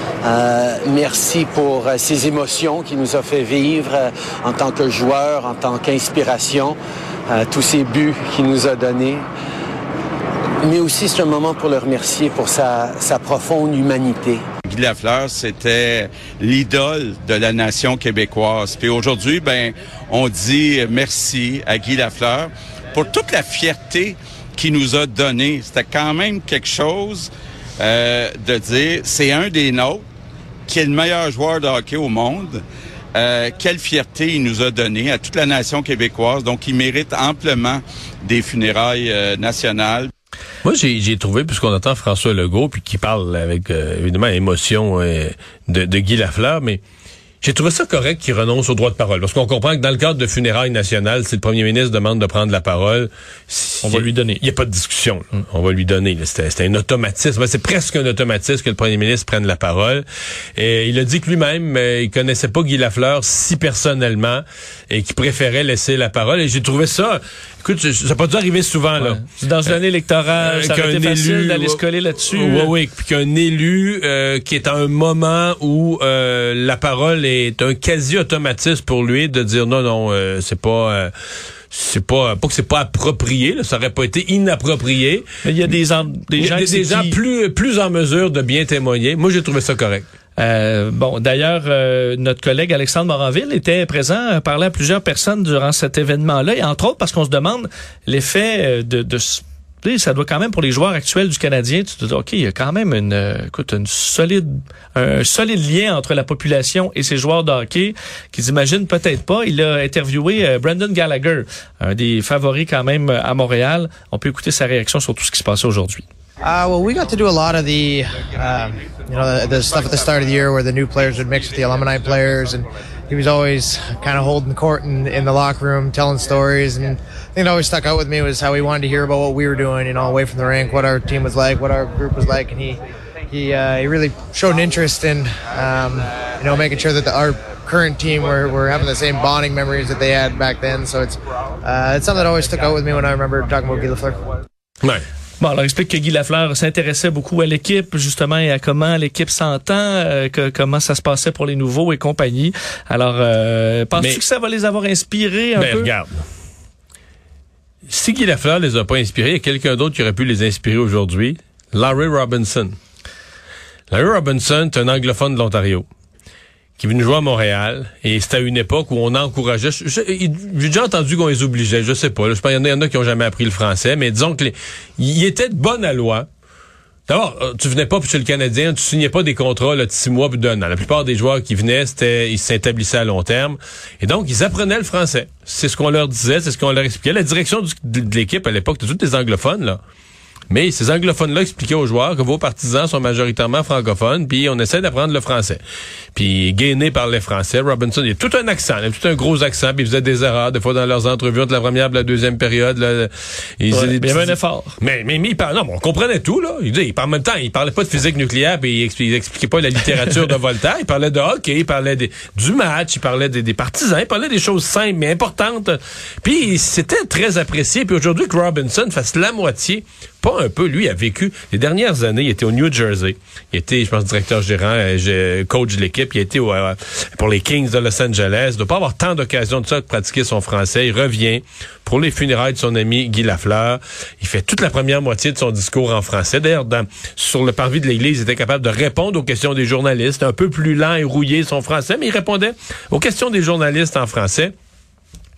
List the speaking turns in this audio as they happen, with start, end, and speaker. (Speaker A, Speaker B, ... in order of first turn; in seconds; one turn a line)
Speaker A: 0.2-6.8
Speaker A: 7.3-9.2
Speaker A: 10.6-14.4
Speaker B: 14.7-30.1
Speaker B: 30.7-32.6
Speaker B: 33.1-40.1
Speaker C: 40.6-46.8
Speaker C: 47.4-69.2
Speaker D: 53.8-54.4
Speaker D: 69.0-72.7
Speaker C: 70.4-81.1
Speaker C: 81.7-85.3
Speaker D: 85.4-87.2
Speaker C: 86.4-90.1
Speaker D: 90.4-116.1
Speaker E: 116.4-144.3
Speaker D: 145.4-155.9
Speaker C: 154.0-154.2
Speaker C: 155.6-156.3
Speaker C: 157.9-162.8
Speaker C: 163.9-165.9
Speaker C: 166.8-176.3
Speaker C: 177.1-189.8
Speaker C: 190.5-195.6
Speaker C: 196.2-244.5
Speaker D: 203.7-204.8